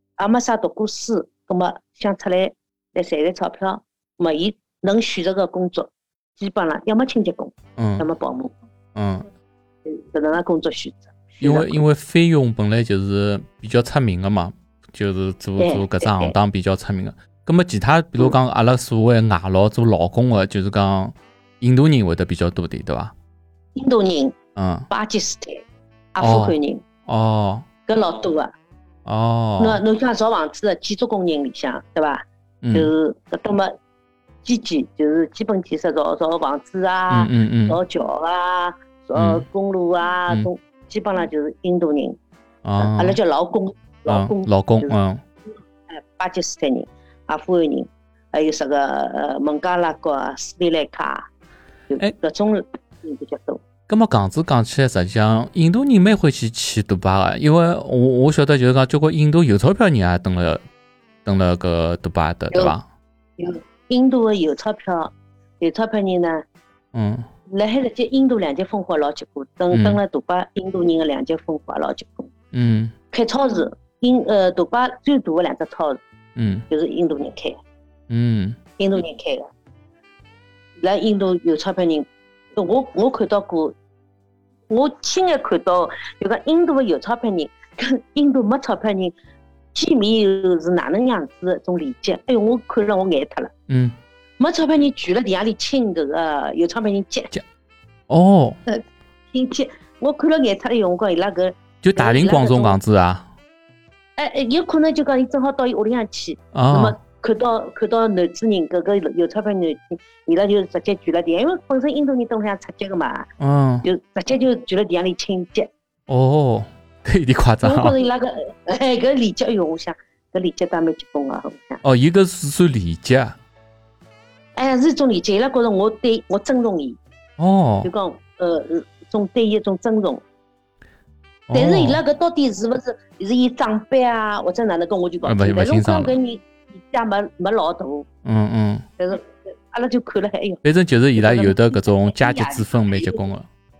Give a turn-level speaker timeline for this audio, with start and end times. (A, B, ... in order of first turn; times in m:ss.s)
0:00.2-0:08.5 A
0:07.8-0:08.0 B
0:09.0-0:09.3 B
0:09.8-0:11.8 A
0:11.4-0:23.1 B
0:15.6-0:16.4 A
0:23.8-0:24.4 A
0:24.6-0:24.9 B
0:24.9-0:26.8 A
0:26.2-0:27.7 B
0:27.9-0:28.5 A
0:29.0-0:29.8 B
0:29.6-0:33.7 A
0:32.6-0:32.9 B
0:34.4-0:42.2 A
0:37.1-0:37.8 B
0:39.2-0:39.4 B
0:42.6-0:43.2 B
0:42.8-0:45.0 A
0:44.1-0:45.2 B
0:45.9-0:51.3 A
0:51.9-0:53.6 A
0:53.9-1:00.6 B
1:01.2-1:02.8 B
1:03.4-1:06.4 A
1:06.9-1:07.3 B
1:07.5-1:12.3 A
1:09.7-1:10.0 B
1:12.5-1:12.9 B
1:13.1-1:16.0 A
1:16.4-1:16.6 B
1:16.7-1:17.6 A
1:18.1-1:18.6 B
1:18.8-1:19.5 A
1:20.8-1:23.7 A
1:24.7-1:29.1 A
1:29.7-1:33.5 A
1:33.7-1:34.0 B
1:34.4-1:37.3 A
1:38.1-1:38.6 B
1:38.7-1:42.8 A
1:41.8-1:43.3 B
1:44.2-1:53.3 A
1:46.5-1:47.0 B
1:53.4-1:53.9 B
1:53.8-1:55.7 A
1:56.1-1:58.0 B
1:57.6-2:01.8 A
2:01.8-2:03.4 B
2:04.6-2:07.0 A
2:07.4-2:07.9 B
2:07.8-2:10.2 A
2:11.5-2:12.0 B
2:11.5-2:18.1 A
2:15.2-2:16.1 B
2:18.2-2:18.8 B
2:19.0-2:20.6 A
2:20.6-2:23.5 B
2:21.2-2:23.2 A